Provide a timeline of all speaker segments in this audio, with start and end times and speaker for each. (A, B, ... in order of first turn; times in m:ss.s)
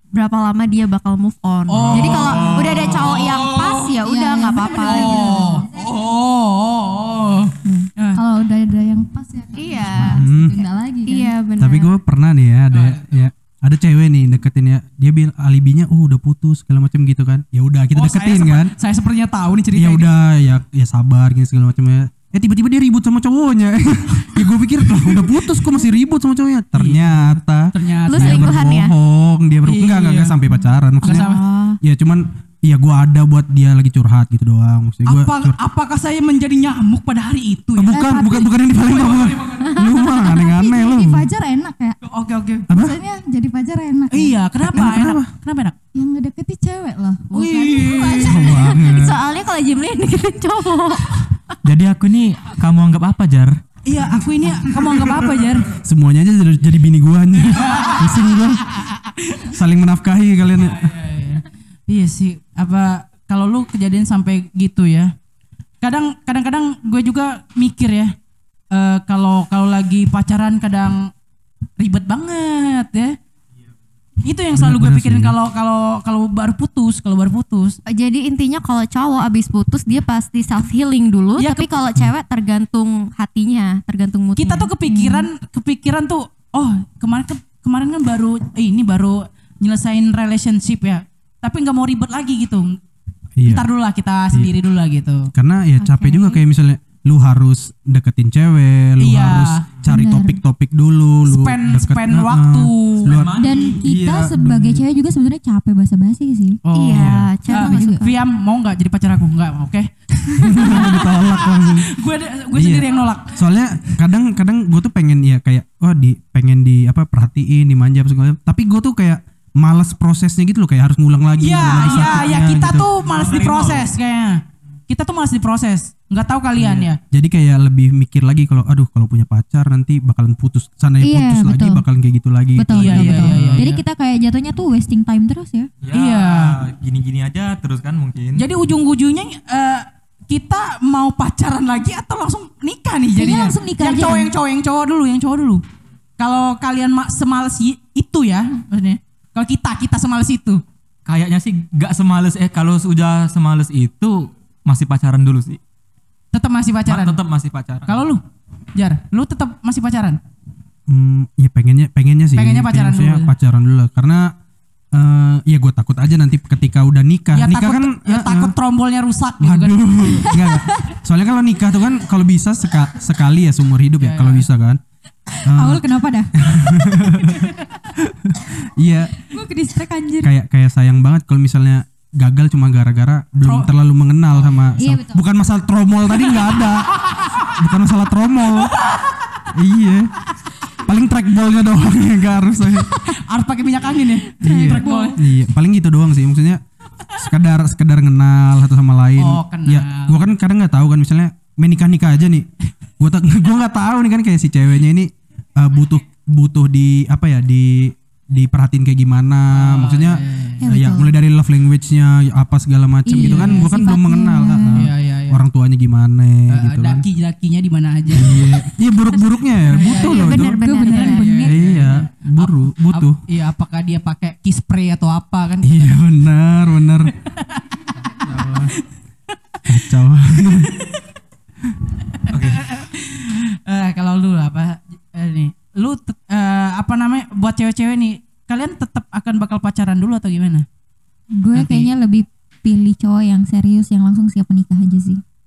0:00.1-0:05.5 A
0:01.7-0:04.0 B
0:04.0-0:05.6 C
0:04.8-0:08.2 B
0:05.3-0:05.6 D
0:08.1-0:11.3 D
0:09.5-0:10.2 A
0:10.0-0:10.6 E
0:10.3-0:10.6 C
0:11.1-0:11.9 A
0:11.6-0:18.7 E
0:17.9-0:20.1 B
0:19.7-0:31.3 E
0:25.0-0:25.3 B
0:26.8-0:28.6 B
0:28.1-0:28.9 A
0:29.6-0:30.3 B
0:31.0-0:31.4 B
0:31.0-0:31.8 A
0:31.8-0:35.6 E
0:35.0-0:38.0 B
0:37.8-0:41.3 E
0:37.9-0:38.6 D
0:38.8-0:39.7 B
0:40.1-0:42.0 D
0:42.0-0:42.7 B
0:42.7-0:43.0 E
0:42.7-0:44.4 D
0:44.1-0:45.8 B
0:44.7-0:45.3 E
0:45.9-0:48.7 D
0:47.3-0:48.5 B
0:48.2-0:49.2 E
0:48.3-0:51.3 A
0:51.6-0:53.6 F
0:53.8-0:55.7 B
0:55.7-0:58.7 E
0:57.6-0:59.5 B
0:59.4-1:00.9 E
1:00.7-1:05.1 B
1:05.8-1:08.1 B
1:08.7-1:11.1 B
1:11.8-1:13.2 B
1:14.2-1:17.8 B
1:14.5-1:15.3 E
1:17.9-1:24.7 A
1:21.4-1:21.8 B
1:24.4-1:32.8 B
1:24.8-1:25.3 C
1:33.4-1:33.7 E
1:33.4-1:35.3 B
1:35.3-1:44.8 E
1:35.8-1:36.4 A
1:39.0-1:39.6 B
1:39.8-1:40.4 C
1:41.2-1:43.2 B
1:43.0-1:43.8 F
1:43.4-1:46.6 C
1:46.6-1:53.4 B
1:46.7-1:48.0 A
1:46.9-1:47.3 E
1:47.5-1:48.1 C
1:50.4-1:52.0 E
1:52.5-2:02.9 E
2:01.4-2:07.0 B
2:03.0-2:03.9 F
2:07.1-2:13.6 E
2:11.0-2:11.8 C
2:12.6-2:15.7 C
2:12.7-2:13.8 B
2:13.4-2:13.7 F
2:15.8-2:18.4 F
2:15.9-2:16.6 B
2:18.4-2:25.6 B
2:23.1-2:24.3 C
2:26.2-2:30.6 B
2:31.0-2:35.6 F
2:36.3-2:37.2 B
2:36.8-2:37.9 F
2:37.8-2:38.2 B
2:38.7-2:40.2 B
2:40.9-2:44.3 E
2:42.3-2:43.3 B
2:44.9-2:48.5 E
2:47.3-2:50.3 B
2:49.4-2:54.8 E
2:50.1-2:50.9 C
2:54.0-2:54.4 B
2:55.4-2:56.3 C
2:55.4-2:59.1 E
2:59.2-3:00.3 C
3:00.2-3:08.8 E
3:03.4-3:03.7 B
3:04.8-3:05.2 C
3:08.8-3:09.2 B
3:09.5-3:10.1 E
3:10.8-3:12.9 E
3:13.1-3:15.2 B
3:14.4-3:16.6 E
3:14.5-3:15.2 C
3:17.1-3:22.5 E
3:19.2-3:20.1 B
3:23.0-3:37.0 E
3:29.5-3:30.6 B
3:30.6-3:31.1 C
3:33.0-3:34.9 C
3:33.1-3:33.7 B
3:34.7-3:35.4 B
3:36.5-3:38.5 B
3:38.1-3:40.6 E
3:39.6-3:46.0 B
3:39.8-3:41.5 A
3:40.3-3:41.6 C
3:41.4-3:43.2 E
3:45.6-3:47.1 E
3:47.2-3:47.6 B
3:48.2-3:48.7 B
3:48.3-3:48.7 E
3:49.6-3:50.8 E
3:50.5-3:50.9 B
3:52.1-4:00.6 B
3:52.3-3:52.6 F
4:01.3-4:05.2 C
4:01.5-4:01.9 B